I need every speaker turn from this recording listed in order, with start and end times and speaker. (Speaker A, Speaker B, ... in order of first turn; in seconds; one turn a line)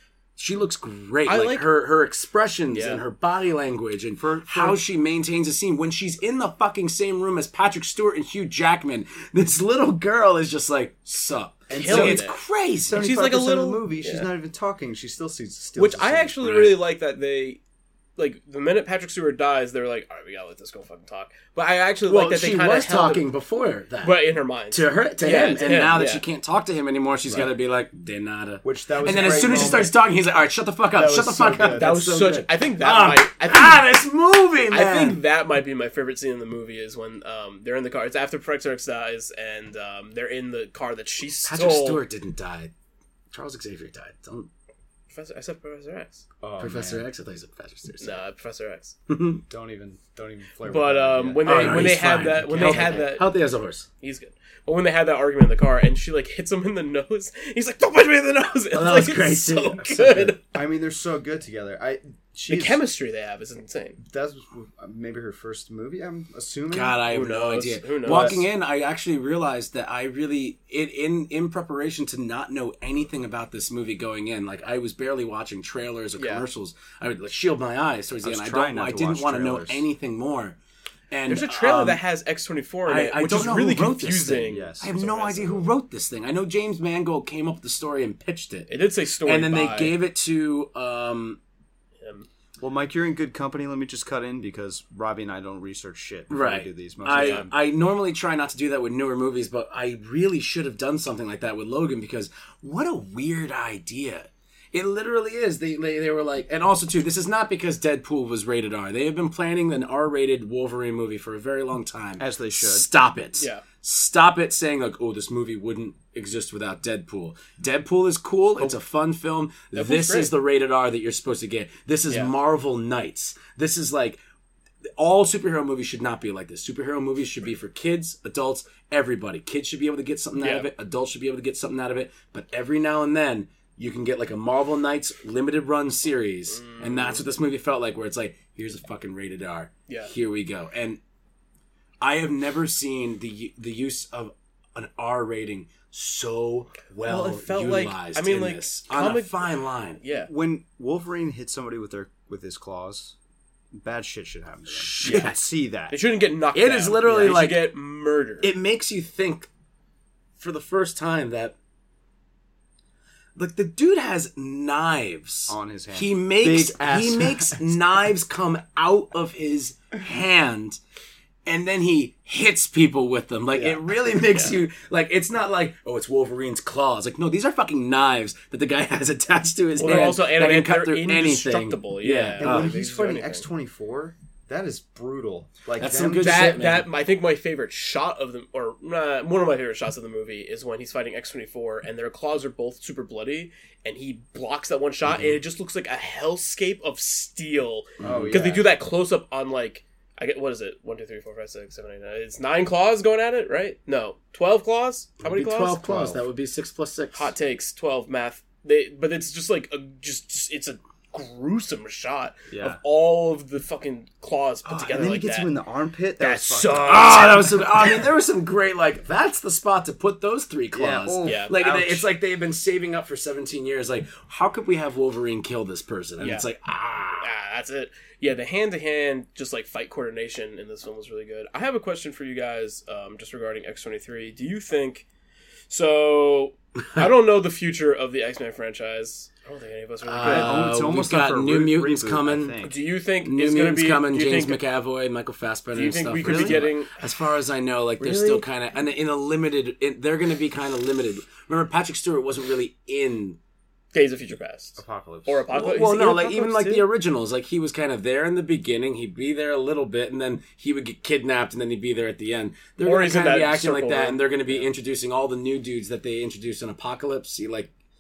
Speaker A: 0.4-13.0
Speaker B: 1.3-1.7
Speaker B: 2.7-3.0
Speaker C: 4.2-4.8
Speaker C: 11.7-12.3
Speaker B: 11.7-12.4
Speaker C: 12.8-16.4
Speaker B: 12.9-14.3
Speaker B: 15.8-17.6
Speaker A: 16.4-16.8
Speaker B: 18.2-23.2
Speaker A: 22.1-35.2
Speaker B: 24.0-26.2
Speaker C: 28.6-29.9
Speaker B: 29.0-29.9
Speaker C: 30.9-32.4
Speaker B: 31.4-33.9
Speaker B: 34.7-42.0
Speaker A: 41.5-42.7
Speaker A: 43.3-44.5
Speaker B: 45.1-46.2
Speaker C: 46.4-47.1
Speaker A: 46.6-48.2
Speaker B: 48.0-49.0
Speaker A: 49.1-49.5
Speaker C: 49.5-53.1
Speaker B: 50.7-53.4
Speaker A: 51.4-53.9
Speaker B: 54.0-60.5
Speaker A: 58.7-60.4
Speaker C: 60.4-62.8
Speaker B: 62.5-64.0
Speaker C: 64.0-67.0
Speaker A: 66.7-80.6
Speaker B: 67.1-68.5
Speaker C: 68.1-68.4
Speaker B: 76.2-76.4
Speaker C: 78.2-79.9
Speaker A: 81.1-82.0
Speaker B: 81.3-85.7
Speaker A: 82.9-91.4
Speaker C: 84.5-85.1
Speaker B: 88.7-90.0
Speaker B: 92.0-92.3
Speaker C: 92.6-97.5
Speaker A: 96.3-124.2
Speaker B: 97.1-97.5
Speaker C: 112.2-112.9
Speaker B: 113.4-113.6
Speaker B: 119.7-120.3
Speaker A: 125.0-141.0
Speaker B: 130.4-130.7
Speaker B: 136.5-137.2
Speaker A: 142.0-150.0
Speaker B: 147.1-150.3
Speaker C: 150.3-153.2
Speaker C: 153.7-156.0
Speaker A: 154.7-155.5
Speaker B: 155.0-155.3
Speaker B: 155.9-158.5
Speaker A: 156.5-157.7
Speaker A: 158.4-159.5
Speaker A: 160.4-161.6
Speaker A: 163.4-170.8
Speaker C: 165.5-167.8
Speaker A: 171.5-182.8
Speaker C: 173.5-173.8
Speaker B: 179.8-183.4
Speaker C: 179.8-180.2
Speaker C: 182.4-186.6
Speaker A: 185.8-186.9
Speaker B: 186.2-205.9
Speaker A: 195.1-195.3
Speaker A: 198.0-198.3
Speaker C: 198.0-198.7
Speaker A: 205.2-207.3
Speaker C: 205.8-206.2
Speaker B: 207.1-215.5
Speaker C: 212.5-212.8
Speaker C: 214.7-217.4
Speaker B: 216.2-218.0
Speaker A: 216.9-227.3
Speaker C: 220.7-222.1
Speaker B: 221.2-221.5
Speaker B: 226.2-226.5
Speaker B: 227.2-235.1
Speaker B: 235.7-240.7
Speaker A: 240.1-242.6
Speaker C: 240.2-242.8
Speaker B: 242.6-244.6
Speaker A: 243.2-253.4
Speaker B: 245.7-247.0
Speaker C: 246.2-246.7
Speaker B: 248.0-248.5
Speaker B: 253.9-256.9
Speaker C: 254.8-255.5
Speaker A: 255.5-267.7
Speaker B: 262.8-264.7